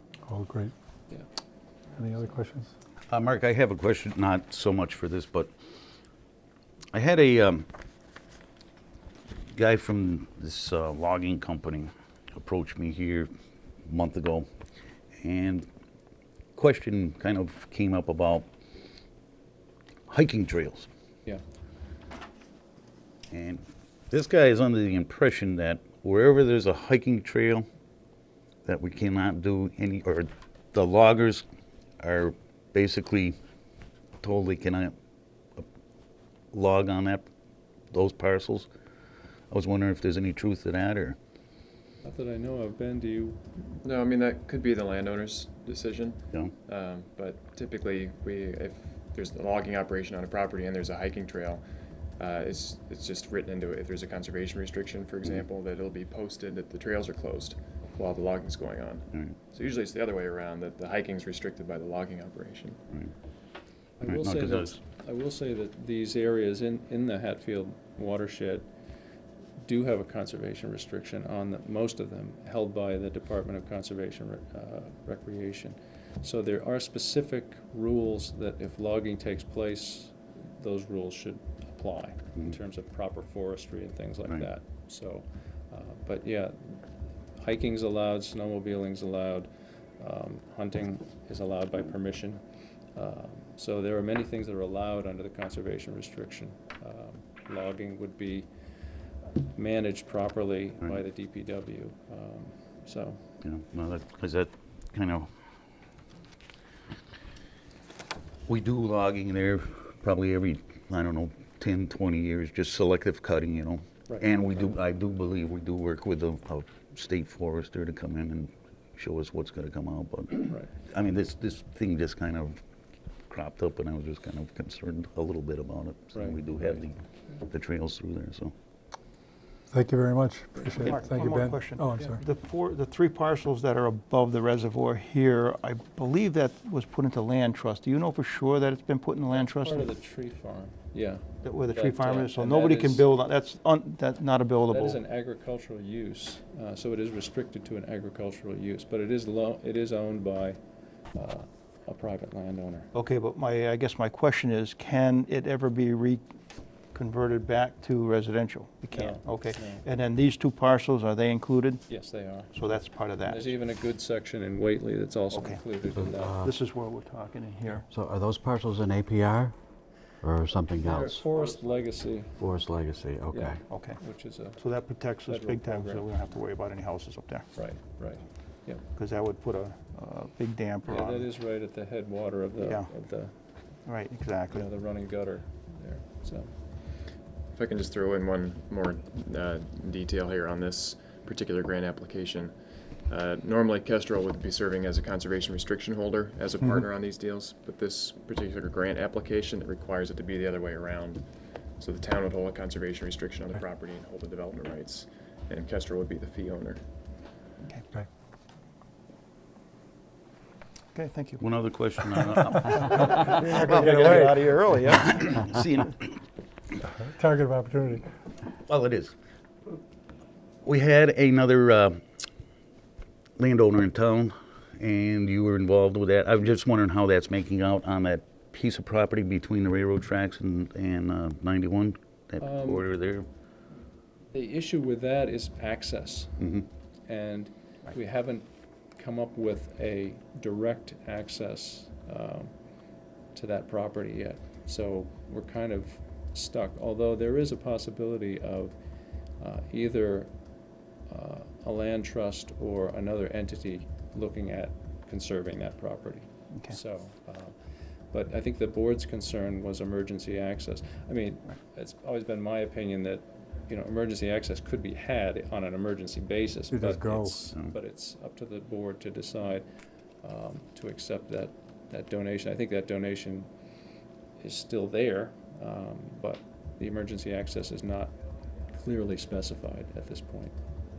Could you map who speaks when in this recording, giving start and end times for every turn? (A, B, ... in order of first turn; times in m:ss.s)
0:00.3-0:00.7 A
0:02.0-0:02.7 A
0:03.1-0:05.5 B
0:06.9-0:07.7 B
0:09.5-0:13.3 B
0:13.8-0:14.5 B
0:15.2-0:15.7 B
0:16.6-0:18.5 B
0:20.1-0:20.9 B
0:23.3-0:27.7 B
0:28.6-0:31.4 B
0:32.0-0:33.4 B
0:34.2-0:34.9 B
0:36.5-0:37.3 B
0:37.9-0:38.7 B
0:39.5-0:41.2 B
0:42.0-0:43.4 C
0:43.8-0:51.6 D
0:52.2-1:02.8 D
0:59.1-0:59.4 B
1:04.0-1:08.7 C
1:04.0-1:04.8 B
1:09.6-1:26.8 C
1:27.4-1:32.4 C
1:33.0-1:38.5 C
1:39.4-1:43.2 C
1:43.4-1:45.3 B
1:48.5-2:02.6 B
2:03.3-2:08.5 B
2:06.1-2:06.9 C
2:09.7-2:12.2 A
2:10.6-2:11.0 C
2:10.8-2:19.9 E
2:19.3-2:23.1 C
2:21.4-2:25.0 E
2:24.7-2:30.6 C
2:31.1-2:32.9 C
2:32.9-2:36.2 E
2:36.9-2:42.0 E
2:38.9-2:39.8 C
2:41.9-2:42.6 C
2:42.5-2:43.6 E
2:43.2-2:46.4 C
2:45.3-2:45.6 E
2:46.0-2:46.5 F
2:46.4-2:47.9 E
2:47.9-2:49.6 F
2:50.2-2:51.3 F
2:50.8-2:52.4 C
2:52.4-2:53.6 F
2:53.3-2:54.6 C
2:53.7-2:54.0 E
2:54.6-2:57.4 E
2:55.3-2:56.1 C
2:57.6-2:58.8 C
2:59.0-3:01.3 E
3:00.9-3:03.3 C
3:02.6-3:02.9 E
3:03.9-3:04.7 E
3:04.5-3:06.5 C
3:07.5-3:26.8 D
3:31.0-3:31.4 E
3:31.4-3:34.2 B
3:32.7-3:34.4 A
3:33.3-3:35.4 E
3:34.9-3:36.2 B
3:36.8-3:38.1 A
3:38.7-3:39.1 B
3:40.6-3:42.0 B
3:43.4-3:53.3 B
3:52.4-3:52.8 C
3:54.3-3:56.4 C
3:56.4-3:56.7 B
3:57.1-4:02.5 C
4:03.3-4:08.8 C
4:09.4-4:10.3 C
4:11.1-4:17.5 C
4:18.1-4:29.6 C
4:26.7-4:27.4 A
4:30.2-4:33.5 C
4:34.4-4:38.1 C
4:38.7-4:40.6 C